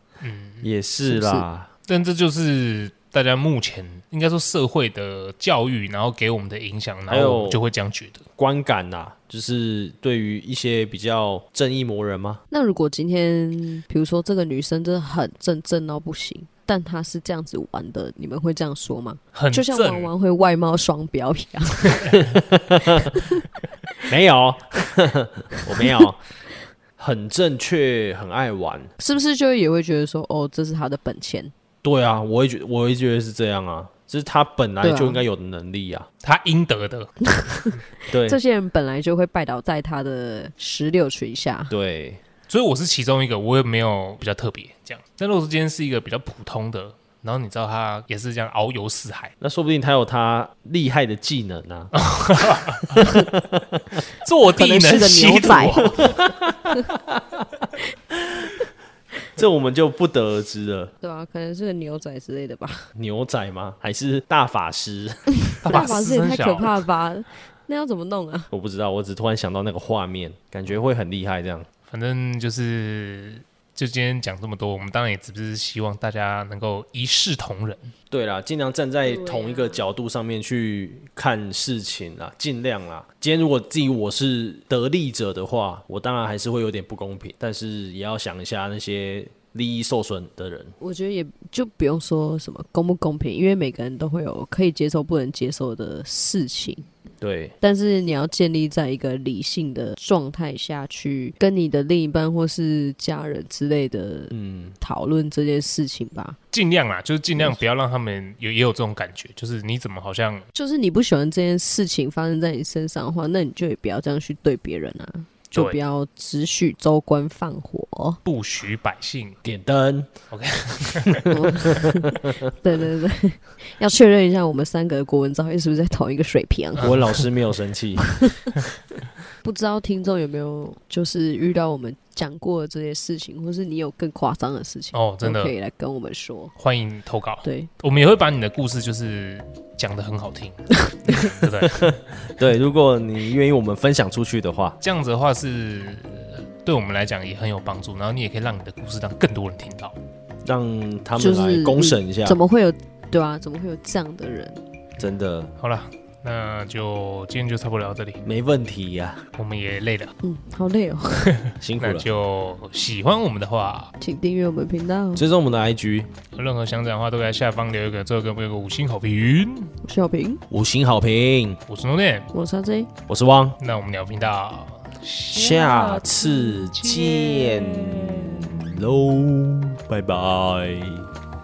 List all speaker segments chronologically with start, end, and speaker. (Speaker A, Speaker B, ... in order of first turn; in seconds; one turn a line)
Speaker A: 0.2-0.7
Speaker B: 0.6-1.7
Speaker C: 1.1-1.5
Speaker A: 1.9-8.2
Speaker B: 7.1-7.6
Speaker B: 8.4-12.4
Speaker C: 12.5-22.2
Speaker A: 19.4-20.1
Speaker A: 22.0-22.3
Speaker B: 22.3-23.1
Speaker C: 23.0-23.4
Speaker B: 24.1-26.2
Speaker C: 25.8-26.1
Speaker B: 27.0-28.9
Speaker C: 29.0-31.5
Speaker B: 31.8-36.1
Speaker C: 34.8-35.2
Speaker A: 36.2-37.8
Speaker C: 37.3-41.7
Speaker B: 38.1-38.4
Speaker B: 41.7-42.2
Speaker A: 42.5-49.3
Speaker B: 49.4-51.9
Speaker A: 51.9-53.0
Speaker B: 53.0-54.0
Speaker A: 54.1-56.2
Speaker C: 54.6-55.9
Speaker B: 56.0-58.5
Speaker B: 59.4-60.9
Speaker C: 61.0-62.9
Speaker B: 63.0-65.9
Speaker A: 65.6-66.7
Speaker C: 65.6-68.5
Speaker B: 68.5-71.7
Speaker A: 71.9-77.9
Speaker B: 78.1-90.8
Speaker C: 79.0-79.8
Speaker C: 90.8-96.9
Speaker B: 97.2-97.5
Speaker C: 97.6-106.4
Speaker B: 104.3-104.8
Speaker A: 106.5-110.5
Speaker C: 110.5-118.2
Speaker A: 115.5-115.8
Speaker A: 118.2-119.4
Speaker B: 119.4-120.1
Speaker A: 120.3-121.2
Speaker B: 121.1-121.8
Speaker C: 121.3-127.2
Speaker A: 126.8-127.1
Speaker B: 126.8-128.1
Speaker C: 128.0-128.5
Speaker C: 129.4-136.5
Speaker A: 134.9-135.5
Speaker A: 136.6-142.1
Speaker C: 137.4-137.7
Speaker B: 141.7-144.8
Speaker A: 144.8-150.0
Speaker B: 150.4-152.4
Speaker C: 151.2-154.6
Speaker B: 155.0-155.5
Speaker A: 155.6-158.2
Speaker B: 158.2-159.3
Speaker A: 159.4-160.1
Speaker C: 160.2-161.3
Speaker A: 161.3-163.9
Speaker B: 161.6-162.1
Speaker C: 164.0-165.2
Speaker B: 165.2-166.1
Speaker A: 166.3-169.7
Speaker C: 169.8-170.4
Speaker B: 170.5-171.6
Speaker A: 171.7-172.3
Speaker C: 172.3-172.9
Speaker B: 173.1-173.6
Speaker A: 173.6-178.1
Speaker B: 175.3-181.1